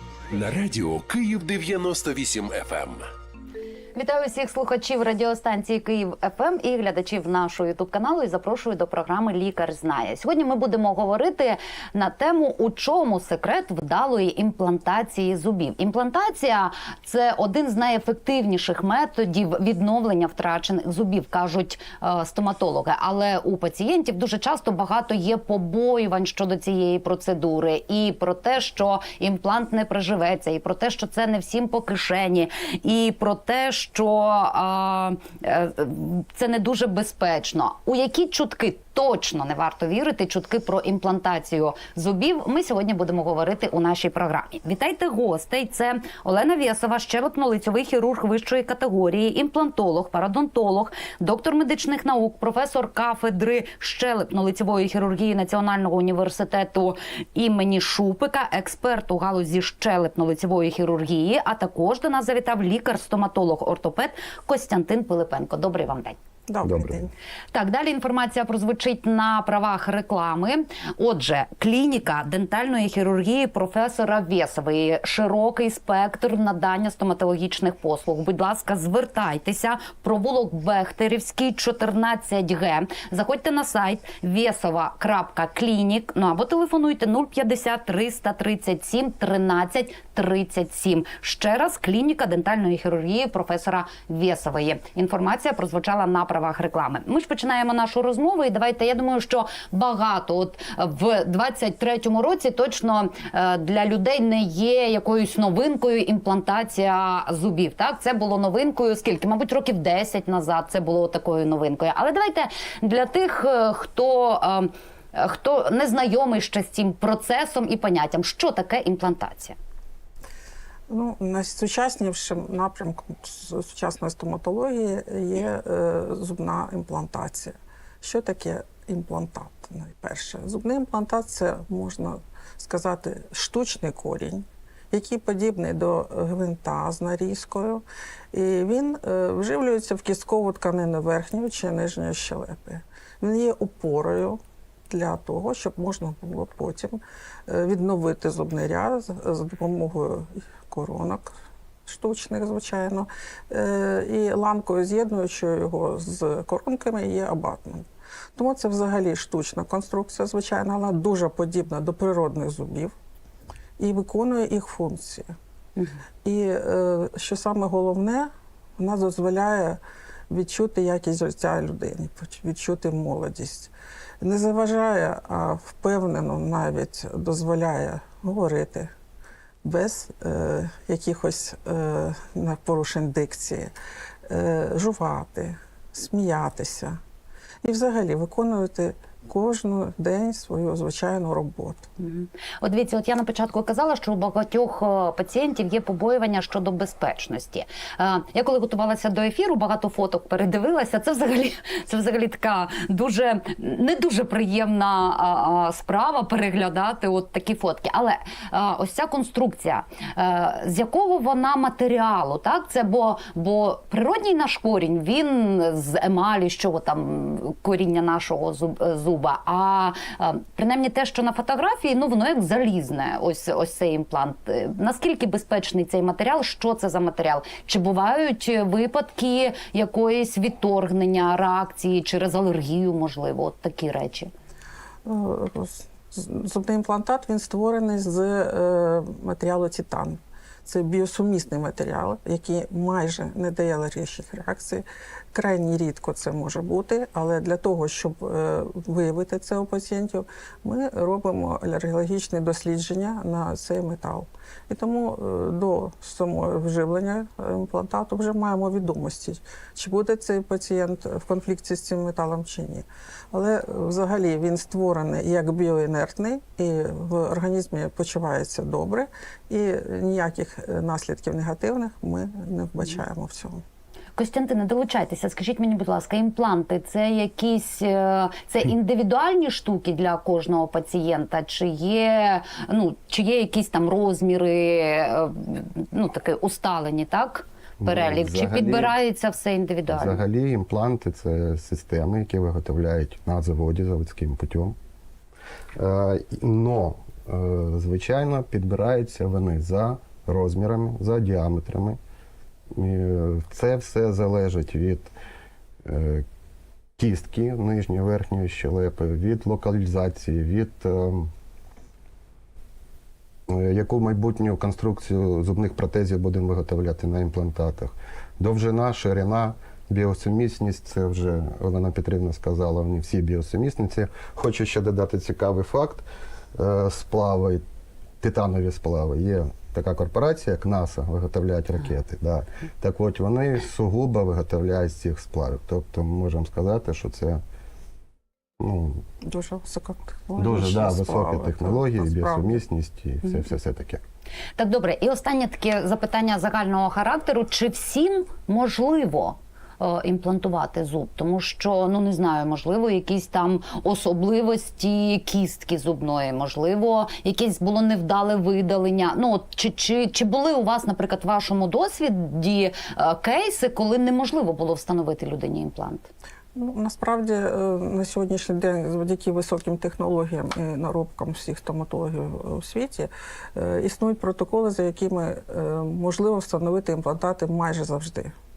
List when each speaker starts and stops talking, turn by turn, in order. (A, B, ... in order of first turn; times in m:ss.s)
0:00.3-0:03.1 A
0:04.0-1:06.2 B
1:06.5-1:07.1 C
1:06.6-1:07.0 D
1:07.5-1:59.6 B
2:00.9-2:31.3 C
2:31.8-2:42.9 C
2:43.8-2:45.3 C
2:46.2-2:49.8 C
2:50.3-2:58.9 C
2:59.6-3:03.7 C
3:04.3-3:07.0 C
3:07.6-3:11.8 C
3:12.0-3:54.3 B
3:55.0-4:33.6 C
4:34.2-4:50.2 B
4:47.8-4:49.0 D
4:49.9-4:54.8 D
4:55.8-5:02.0 D
5:02.7-5:05.1 D
5:05.8-5:06.2 D
5:07.0-5:11.3 D
5:13.5-5:27.6 D
5:28.2-5:37.4 D
5:38.6-5:39.0 D
5:39.2-5:42.6 C
5:40.4-5:44.0 D
5:44.6-6:06.1 B
6:06.5-6:18.3 C